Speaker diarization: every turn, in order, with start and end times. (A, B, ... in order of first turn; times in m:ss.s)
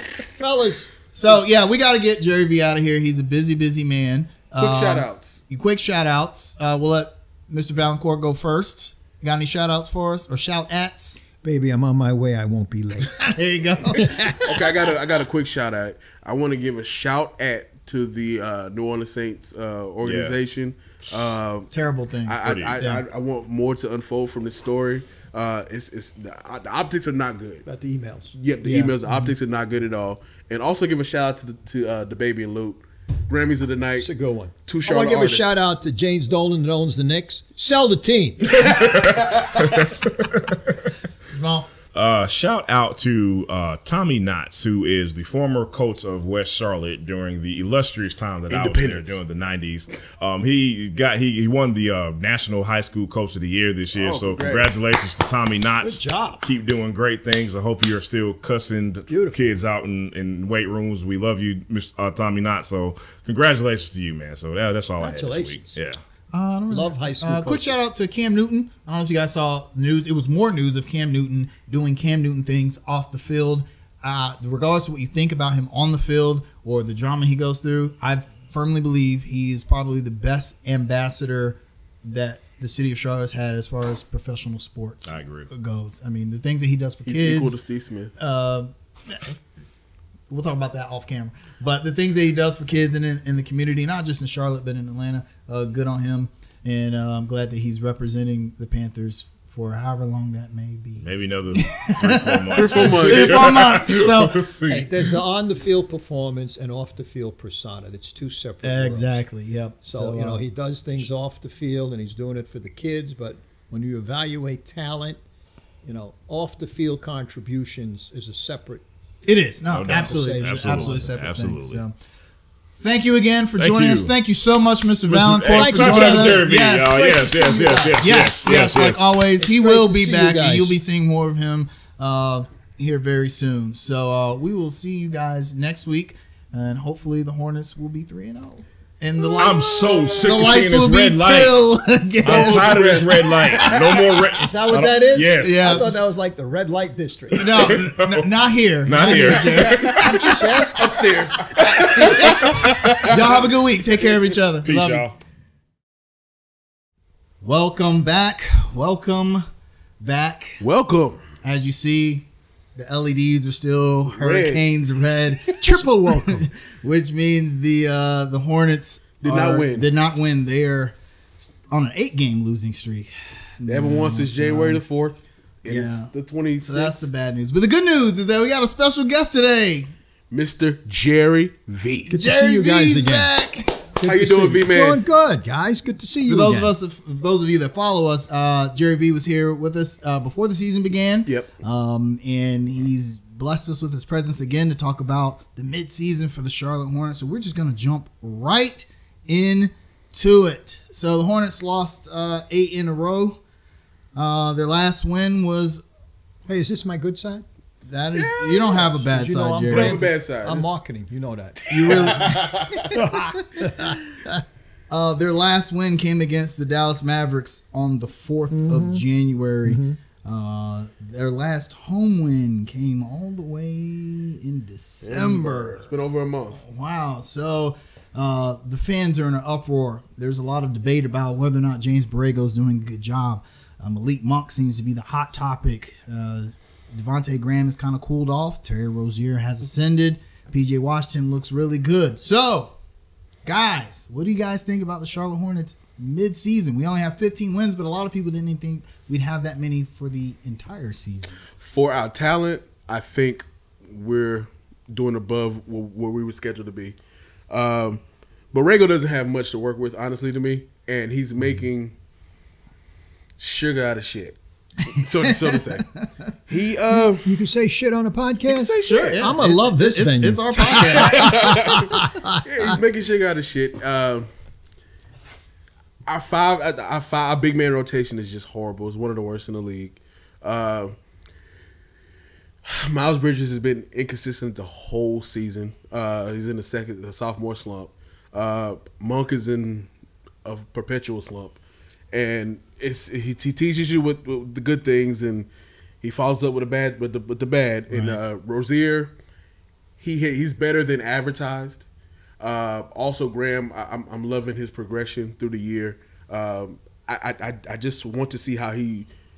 0:00.4-0:00.9 A
0:01.1-0:11.2 B
0:04.6-0:05.4 C
0:11.4-0:13.4 A
0:13.2-0:14.4 B
0:13.9-0:14.8 A
0:14.4-0:21.7 C
0:20.0-0:20.4 D
0:21.7-0:23.0 B
0:22.2-0:27.6 C
0:22.4-0:22.8 D
0:27.6-0:28.3 A
0:28.3-0:34.1 C
0:28.6-0:29.3 B
0:34.0-0:38.6 A
0:34.6-0:35.4 C
0:38.5-0:40.4 D
0:41.3-0:41.7 B
0:41.9-1:06.0 D
0:48.5-0:49.2 C
0:54.0-0:54.7 C
0:55.8-0:56.4 A
0:59.1-0:59.5 A
1:05.0-1:05.8 A
1:06.3-1:27.6 B
1:06.7-1:07.8 A
1:25.1-1:25.5 D
1:27.1-1:28.1 C
1:28.2-1:29.3 B
1:30.3-1:44.5 B
1:41.0-1:45.1 D
1:42.5-1:43.9 C
1:44.7-1:49.2 A
1:48.6-1:50.4 B
1:49.8-1:55.2 A
1:55.8-1:58.8 A
1:59.2-2:01.9 B
1:59.7-2:01.8 D
1:59.9-2:01.1 A
2:02.7-2:07.1 B
2:03.6-2:04.1 D
2:05.1-2:09.0 D
2:05.5-2:08.2 A
2:08.0-2:23.0 B
2:09.4-2:10.8 A
2:19.4-2:21.6 D
2:19.7-2:20.2 C
2:22.2-2:25.7 D
2:22.2-2:24.0 C
2:23.6-2:24.0 B
2:24.4-2:27.7 A
2:25.4-2:26.0 B
2:27.4-2:30.7 B
2:27.4-2:28.2 D
2:28.8-2:30.4 D
2:29.0-2:30.9 A
2:30.8-2:33.5 C
2:32.0-2:35.1 B
2:32.0-2:33.1 D
2:34.6-2:35.2 D
2:37.4-2:39.4 B
2:40.0-2:40.6 B
2:40.6-2:41.2 C
2:41.4-2:54.8 B
2:44.1-2:44.6 C
2:45.6-2:46.4 A
2:49.2-2:49.9 C
2:53.7-2:57.0 C
2:55.7-2:56.1 B
2:56.6-2:59.9 B
3:00.3-3:02.2 C
3:02.1-3:03.3 A
3:02.1-3:04.0 B
3:04.0-3:06.7 A
3:04.0-3:05.0 C
3:06.2-3:23.4 B
3:24.1-3:25.8 B
3:26.5-3:27.4 A
3:27.8-3:30.0 B
3:28.1-3:29.0 C
3:29.1-3:32.3 A
3:29.7-3:30.7 C
3:31.7-3:33.0 C
3:31.7-3:33.0 B
3:32.8-3:34.4 A
3:33.6-3:34.0 B
3:34.9-3:45.9 B
3:38.5-3:39.0 A
3:39.6-3:40.0 A
3:45.0-3:46.6 C
3:46.5-4:02.7 B
4:03.4-4:11.4 B
4:11.6-4:17.0 C
4:17.5-4:21.9 C
4:23.4-4:25.9 C
4:25.2-4:26.1 B
4:26.5-4:27.3 C
4:26.9-4:32.7 A
4:28.5-4:29.3 C
4:28.8-4:31.9 B
4:30.7-4:34.3 C
4:36.1-4:41.0 C
4:42.6-4:49.9 C
4:50.4-4:51.6 C
4:52.1-4:55.5 C
4:56.0-4:59.1 C
4:57.9-4:58.2 B
5:00.0-5:01.8 C
5:02.4-5:09.1 C